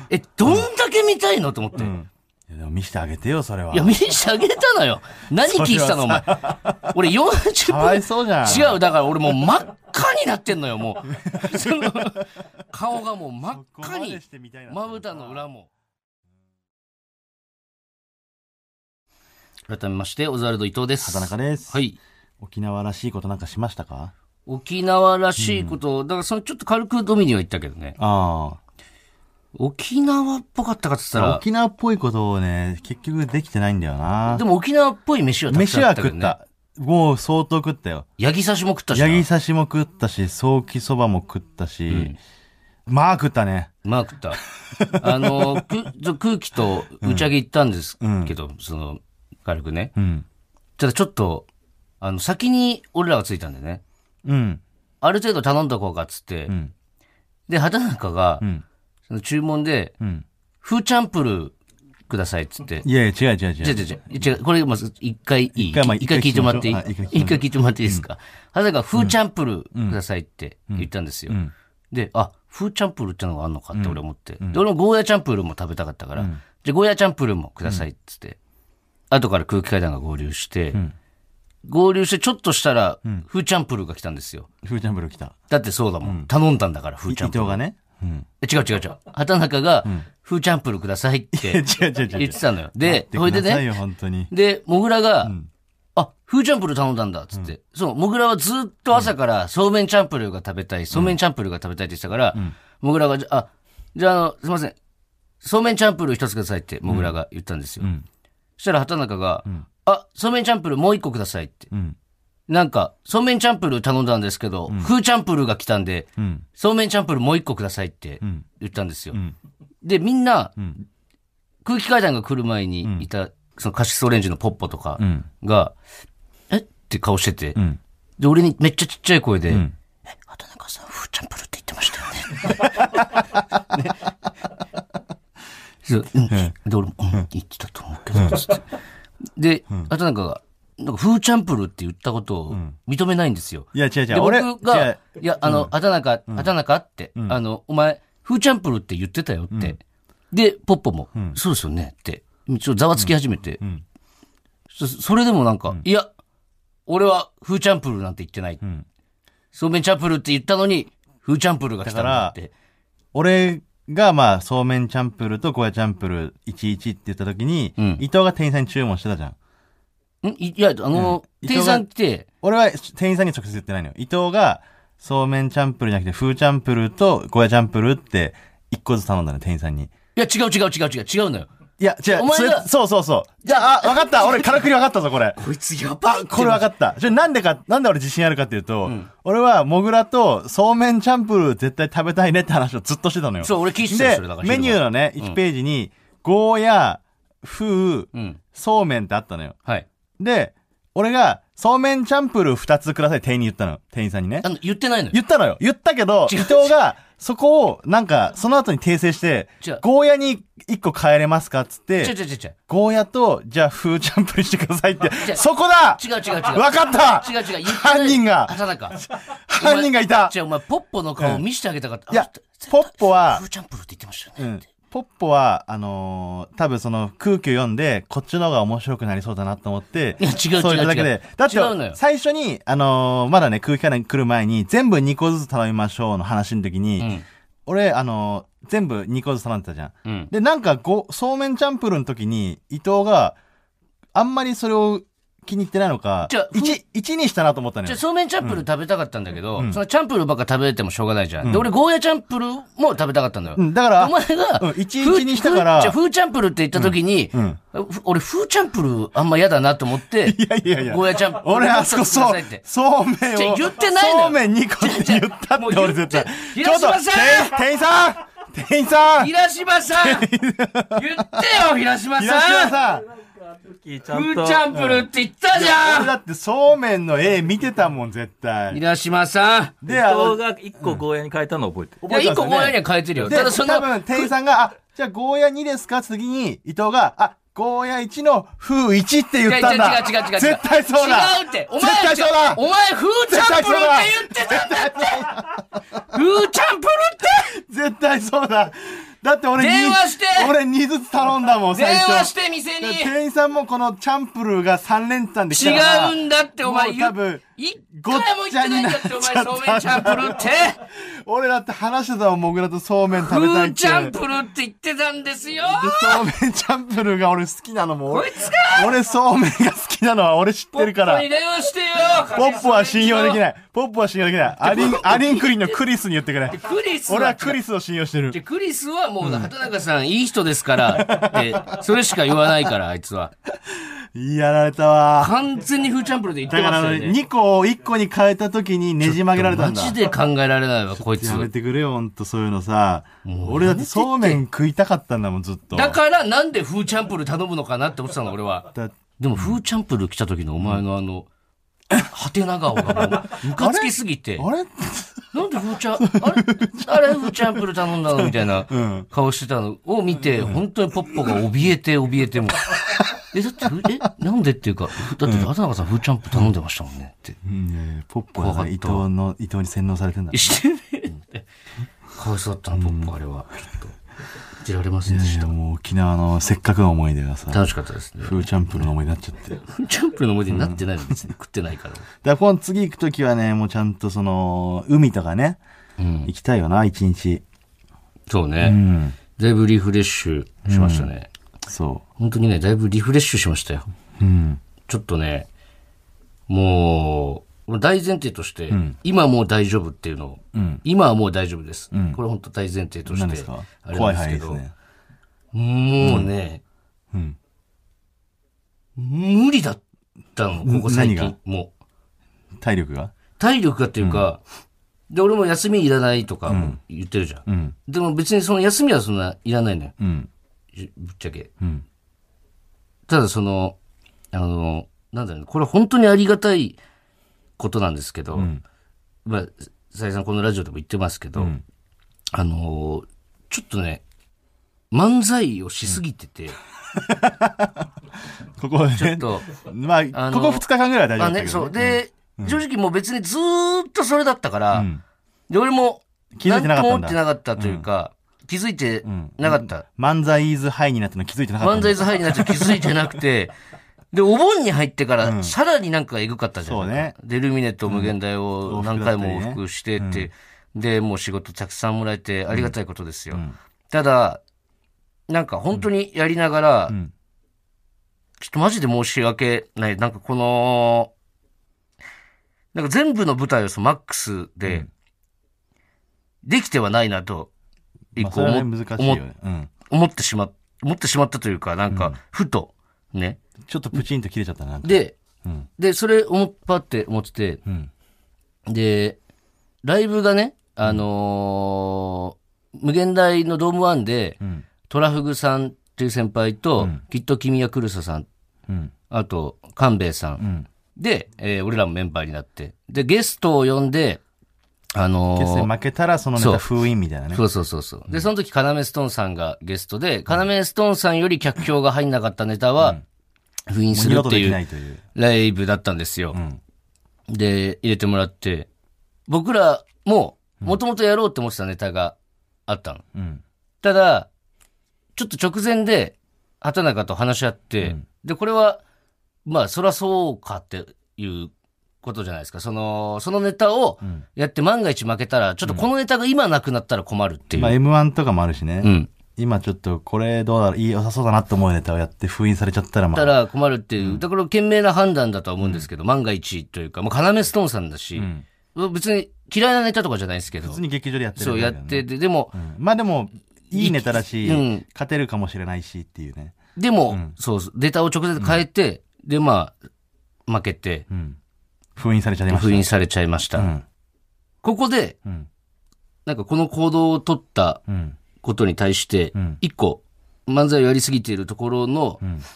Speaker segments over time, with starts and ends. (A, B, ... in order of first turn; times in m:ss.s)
0:00.1-0:01.9 A
0:01.8-0:04.0 B
0:03.7-0:15.7 A
0:05.4-0:07.0 B
0:07.6-0:08.8 B
0:11.2-0:12.1 B
0:13.5-0:15.4 B
0:19.7-0:22.0 A
0:21.0-0:21.8 B
0:22.4-0:24.1 B
0:24.4-0:28.0 A
0:25.4-0:25.8 B
0:28.0-0:28.6 B
0:29.5-0:31.4 A
0:31.1-0:34.4 B
0:34.3-0:36.3 A
0:35.5-0:38.1 B
0:38.2-0:39.2 A
0:38.9-0:42.1 B
0:41.9-0:42.2 A
0:42.9-0:43.7 B
0:43.8-0:44.4 A
0:44.7-0:45.7 B
0:45.0-0:49.9 A
0:47.0-0:47.3 B
0:48.0-0:48.3 B
0:50.0-0:50.2 B
0:50.8-0:51.5 A
0:52.0-0:53.8 A
0:54.2-0:54.6 B
0:55.0-0:56.5 A
0:57.5-0:58.4 A
0:59.1-0:59.9 A
1:00.6-1:01.6 A
1:02.1-1:02.8 A
1:02.8-1:04.3 B
1:03.6-1:18.4 A
1:05.5-1:08.0 B
1:09.7-1:10.0 B
1:10.7-1:11.5 B
1:13.7-1:14.6 B
1:19.1-1:20.8 A
1:21.6-1:24.5 A
1:24.6-1:25.4 B
1:25.5-1:27.6 A
1:26.0-1:26.3 B
1:27.1-1:28.3 B
1:28.4-1:33.7 A
1:31.3-1:34.3 B
1:34.3-1:35.3 A
1:36.0-1:44.8 A
1:45.4-1:47.9 A
1:46.8-1:47.1 B
1:48.6-1:51.7 A
1:51.7-1:52.0 B
1:52.5-1:59.2 A
1:56.2-1:56.4 B
1:59.8-2:00.8 A
2:01.6-2:05.7 A
2:05.0-2:05.2 B
2:06.5-2:07.6 A
2:08.2-2:12.9 A
2:12.5-2:13.2 B
2:15.8-2:18.6 A
2:18.1-2:18.4 B
2:19.4-2:29.8 A
2:22.5-2:22.7 B
2:23.7-2:25.7 B
2:29.5-2:29.8 B
2:30.3-2:33.6 A
2:33.0-2:33.8 B
2:34.7-2:36.1 A
2:36.9-2:38.6 A
2:39.5-2:42.5 A
2:41.8-2:42.4 B
2:43.1-2:49.4 B
2:47.8-2:48.0 A
2:50.2-2:52.2 A
2:50.9-2:51.9 B
2:52.4-2:59.9 B
3:00.1-3:01.5 A
3:01.8-3:05.4 B
3:02.1-3:02.7 A
3:03.4-3:04.6 A
3:05.4-3:06.7 A
3:06.0-3:19.6 B
3:13.4-3:15.4 A
3:18.1-3:18.4 A
3:20.2-3:24.5 B
3:24.4-3:25.2 A
3:25.1-3:32.1 B
3:26.2-3:26.7 A
3:32.0-3:32.5 A
3:32.7-3:40.3 B
3:36.0-3:39.0 A
3:39.6-3:44.4 A
3:41.2-3:41.4 B
3:42.1-3:43.4 B
3:44.4-3:57.1 B
3:50.2-3:52.0 A
3:57.0-3:57.2 A
3:57.6-4:03.4 B
4:00.0-4:00.3 A
4:04.1-4:08.6 B
4:06.2-4:06.8 A
4:07.8-4:22.6 A
4:11.4-4:11.7 B
4:13.6-4:16.0 B
4:16.7-4:17.6 B
4:20.2-4:29.3 B
4:23.3-4:27.6 A
4:29.1-4:30.2 A
4:30.0-4:31.6 B
4:30.9-4:32.8 A
4:32.1-4:33.0 B
4:33.5-4:34.7 C
4:34.0-4:36.1 A
4:34.7-4:38.8 B
4:38.7-4:39.8 A
4:39.8-4:41.0 B
4:39.8-4:42.0 C
4:42.0-4:52.6 B
4:42.1-4:44.3 A
4:49.4-4:55.4 A
4:53.3-4:55.8 B
4:56.1-4:57.5 A
4:57.5-5:07.4 B
4:59.6-5:00.5 A
5:01.7-5:03.1 A
5:05.5-5:10.8 A
5:08.0-5:14.2 B
5:13.2-5:16.2 A
5:15.6-5:21.3 B
5:18.1-5:19.0 A
5:20.7-5:23.4 A
5:22.3-5:28.4 B
5:24.6-5:25.8 A
5:26.5-5:27.6 A
5:28.3-5:33.3 A
5:29.2-5:29.5 B
5:30.8-5:31.8 B
5:34.1-5:35.3 B
5:35.2-5:37.2 A
5:36.5-5:40.0 B
5:39.0-5:41.5 A
5:40.9-5:46.0 B
5:43.2-5:44.4 A
5:45.7-5:51.3 A
5:48.7-5:49.6 B
5:52.0-5:54.5 A
5:52.8-5:55.3 B
5:55.3-6:07.4 A
5:56.0-5:59.1 B
6:00.4-6:00.6 B
6:02.7-6:03.7 B
6:05.2-6:05.5 B
6:07.4-6:10.6 B
6:08.4-6:09.0 A
6:10.3-6:11.4 A
6:12.1-6:13.9 A
6:12.7-6:13.1 B
6:14.6-6:15.5 A
6:15.1-6:17.6 B
6:17.5-6:18.5 A
6:18.2-6:19.6 B
6:19.6-6:22.0 A
6:20.5-6:21.2 B
6:22.2-6:25.6 B
6:26.0-6:26.3 A
6:26.2-6:27.4 B
6:28.3-6:28.8 A
6:28.6-6:29.2 B
6:29.3-6:31.3 A
6:30.6-6:31.1 B
6:31.7-6:32.0 B
6:32.2-6:33.9 A
6:34.2-6:34.6 B
6:34.8-6:35.5 A
6:36.5-6:44.6 A
6:38.7-6:39.0 B
6:40.5-6:40.8 B
6:41.9-6:42.2 B
6:43.1-6:44.7 B
6:45.5-6:46.6 A
6:46.0-6:46.3 B
6:47.1-6:47.4 B
6:49.0-6:49.8 A
6:50.4-6:51.7 A
6:50.6-6:51.3 B
6:52.6-6:53.1 B
6:53.4-6:54.4 A
6:55.1-6:59.9 A
6:56.5-6:56.8 B
6:57.5-6:57.7 B
7:00.0-7:00.3 B
7:00.7-7:01.5 A
7:03.1-7:03.8 A
7:04.3-7:06.8 A
7:07.6-7:08.5 A
7:08.3-7:08.6 B
7:09.2-7:11.5 A
7:11.4-7:11.6 B
7:12.3-7:14.0 A
7:14.9-7:16.6 A
7:16.9-7:17.9 B
7:18.6-7:22.6 B
7:18.9-7:19.5 A
7:20.1-7:20.6 A
7:21.2-7:24.9 A
7:24.7-7:25.0 B
7:25.5-7:29.8 A
7:26.4-7:27.8 B
7:29.0-7:33.0 B
7:31.6-7:33.5 A
7:34.1-7:44.4 A
7:35.2-7:35.5 B
7:36.6-7:37.1 B
7:37.9-7:38.1 B
7:38.6-7:40.3 B
7:45.3-7:47.0 A
7:48.4-7:51.1 A
7:52.7-7:54.9 A
7:56.4-7:57.5 A
7:58.2-7:59.2 A
7:58.2-7:59.7 B
7:59.8-8:03.4 A
8:01.9-8:02.2 B
8:03.6-8:05.6 B
8:04.8-8:05.2 A
8:05.8-8:07.6 A
8:08.6-8:09.2 A
8:09.8-8:18.3 A
8:18.7-8:18.9 B
8:19.1-8:20.4 A
8:20.4-8:20.7 B
8:21.0-8:24.2 A
8:24.9-8:25.7 A
8:25.3-8:27.4 B
8:26.4-8:26.6 A
8:27.3-8:33.0 A
8:33.7-8:34.6 A
8:33.9-8:35.0 B
8:35.1-8:36.4 A
8:36.3-8:36.6 B
8:37.3-8:38.7 A
8:39.3-8:42.1 A
8:42.7-8:43.0 A
8:43.1-8:43.4 B
8:43.8-8:44.3 A
8:45.2-8:48.8 A
8:49.4-8:57.8 A
8:57.6-9:03.3 B
8:58.8-8:59.1 A
9:03.1-9:10.8 A
9:08.2-9:08.4 B
9:10.6-9:16.6 B
9:11.4-9:12.5 A
9:13.7-9:14.8 A
9:16.8-9:19.7 A
9:17.1-9:17.3 B
9:18.4-9:18.6 B
9:20.5-9:21.0 A
9:21.1-9:21.4 B
9:22.0-9:22.8 B
9:22.5-9:23.7 A
9:23.6-9:23.8 B
9:24.6-9:25.2 A
9:26.2-9:27.8 A
9:27.9-9:28.2 B
9:28.4-9:32.2 A